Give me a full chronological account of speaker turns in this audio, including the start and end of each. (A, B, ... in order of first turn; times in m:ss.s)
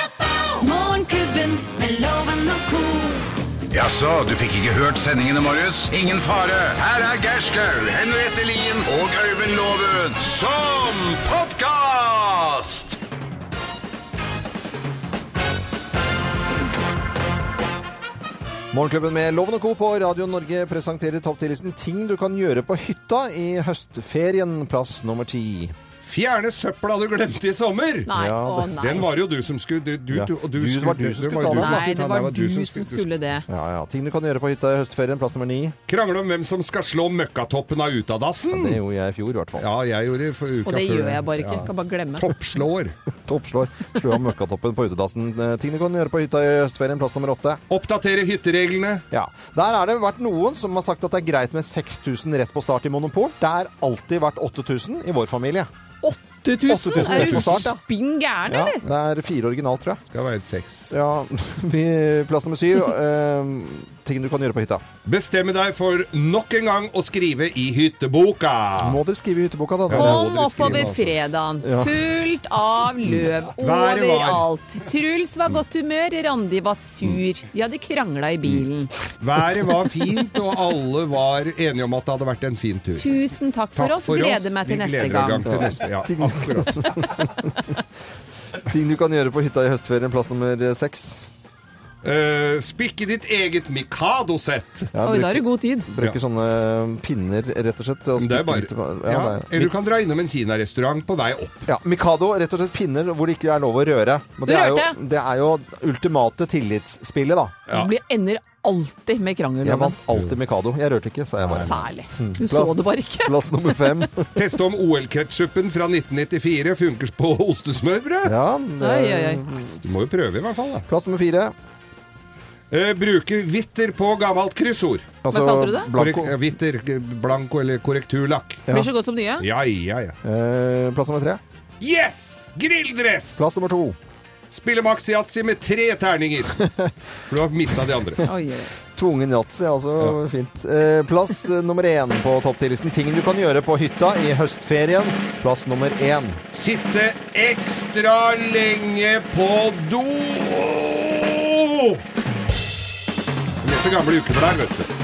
0:00.6-0:03.3 A
0:03.7-0:13.0 B
0:18.7-0:25.8 C
0:26.0-0:28.1 D
0:28.1-0:29.0 A
0:28.1-0:28.8 C
0:28.8-0:33.1 D
0:30.1-0:31.9 C
0:31.5-0:33.4 A
0:33.5-0:35.8 C
0:35.9-0:38.8 D
0:38.5-0:39.7 C
0:39.6-0:43.0 D
0:40.7-0:42.3 A
0:43.3-0:47.6 C
0:47.7-0:49.0 D
0:49.1-0:55.7 C
0:56.0-0:58.8 A
0:56.7-0:57.8 C
0:56.8-0:57.7 D
0:58.4-1:00.0 C
1:00.1-1:00.9 D
1:00.9-1:04.8 C
1:05.1-1:09.0 D
1:08.8-1:10.9 C
1:09.9-1:11.2 D
1:09.9-1:18.9 A
1:11.6-1:12.0 C
1:13.0-1:14.5 D
1:19.2-1:23.2 D
1:23.0-1:25.4 A
1:23.8-1:27.1 D
1:25.4-1:27.8 C
1:28.6-1:31.2 C
1:32.0-1:34.9 D
1:34.9-1:39.7 C
1:35.0-1:35.9 A
1:38.2-1:41.7 D
1:41.7-1:47.6 C
1:44.4-1:45.0 A
1:47.7-1:50.0 A
1:49.6-1:54.4 C
1:51.4-1:54.0 A
1:51.5-1:51.8 D
1:54.3-1:58.3 D
1:58.2-1:59.8 C
1:58.8-1:59.4 A
1:59.8-2:00.9 D
2:00.9-2:01.6 C
2:02.7-2:05.1 D
2:05.2-2:06.4 C
2:05.3-2:05.9 A
2:06.0-2:08.7 D
2:08.7-2:09.4 A
2:09.4-2:10.2 D
2:10.2-2:11.4 C
2:11.8-2:13.5 D
2:13.4-2:14.0 C
2:14.5-2:16.7 D
2:16.6-2:16.9 C
2:17.3-2:18.2 D
2:18.2-2:18.7 A
2:18.9-2:26.4 C
2:26.5-2:32.0 D
2:33.6-2:34.9 D